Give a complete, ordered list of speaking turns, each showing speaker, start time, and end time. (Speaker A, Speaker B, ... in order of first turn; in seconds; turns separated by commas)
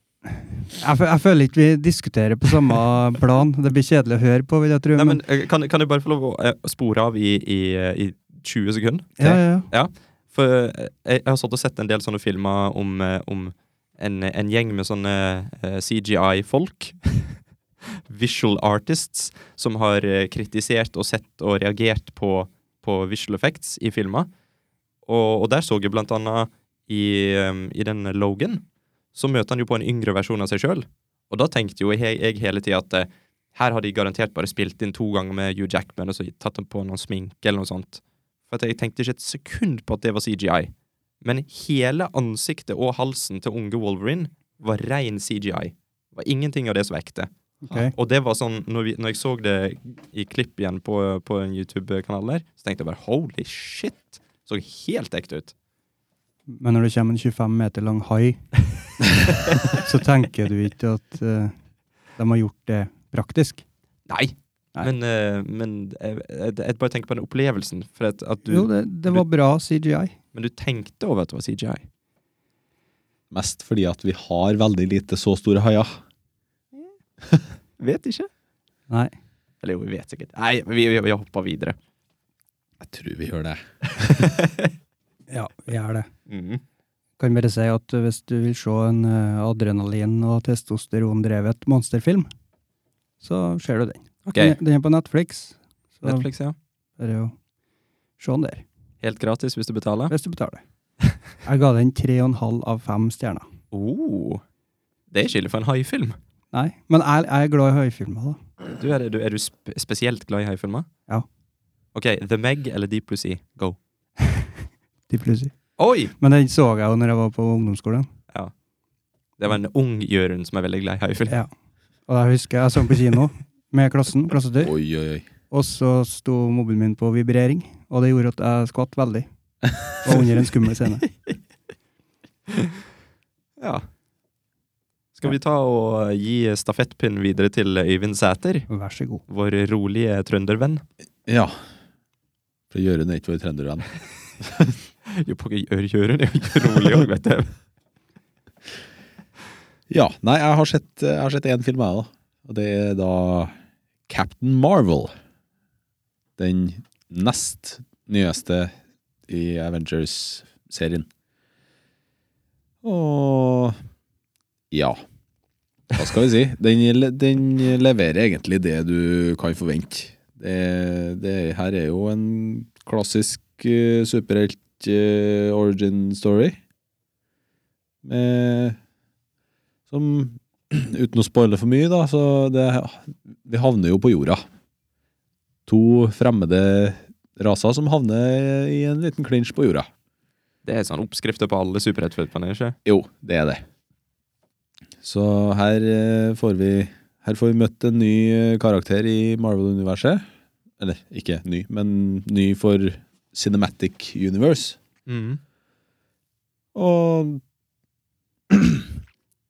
Speaker A: 0.2-5.2, Speaker B: 5.0-17.4, Speaker A: 9.2-9.7, Speaker B: 17.9-24.3, Speaker B: 25.0-28.6, Speaker B: 29.1-40.7, Speaker B: 41.2-55.5, Speaker A: 47.6-47.9, Speaker A: 56.5-58.4, Speaker A: 59.7-61.5, Speaker A: 62.2-63.6, Speaker B: 64.1-69.2, Speaker A: 68.5-70.1, Speaker B: 70.3-71.8, Speaker C: 73.3-75.9, Speaker B: 77.8-78.3, Speaker B: 79.6-81.8, Speaker C: 82.8-84.3, Speaker B: 84.0-84.7, Speaker A: 85.3-86.1, Speaker B: 86.3-86.6, Speaker A: 87.2-92.3, Speaker A: 93.2-96.2, Speaker B: 94.2-94.6, Speaker B: 96.0-96.5, Speaker A: 97.0-97.3, Speaker A: 98.2-98.6, Speaker B: 99.0-100.1, Speaker A: 100.1-100.6, Speaker A: 101.4-103.5, Speaker B: 103.7-104.4, Speaker B: 105.1-106.2, Speaker A: 106.5-108.4, Speaker B: 108.8-110.9, Speaker B: 111.9-113.8, Speaker A: 115.1-115.5, Speaker B: 115.8-116.1, Speaker A: 116.2-118.1, Speaker B: 119.4-121.4, Speaker A: 122.1-124.7, Speaker C: 124.6-125.2, Speaker A: 125.5-129.3, Speaker A: 129.9-131.1, Speaker B: 133.6-133.8, Speaker B: 135.2-138.7, Speaker A: 138.7-139.2, Speaker B: 139.3-140.8, Speaker C: 141.2-141.5, Speaker C: 142.7-143.9, Speaker C: 144.4-144.7, Speaker B: 145.1-147.5, Speaker C: 149.9-153.5, Speaker C: 154.1-155.1, Speaker C: 156.4-158.7, Speaker C: 159.3-161.1, Speaker C: 162.8-163.8, Speaker C: 164.7-165.0, Speaker C: 165.9-176.6, Speaker C: 178.0-178.8, Speaker C: 179.9-184.4, Speaker C: 185.7-189.9, Speaker B: 190.6-192.8, Speaker C: 192.8-193.6, Speaker C: 195.0-200.2, Speaker C: 200.8-204.8, Speaker B: 205.1-205.4, Speaker C: 206.7-207.4, Speaker C: 208.5-208.9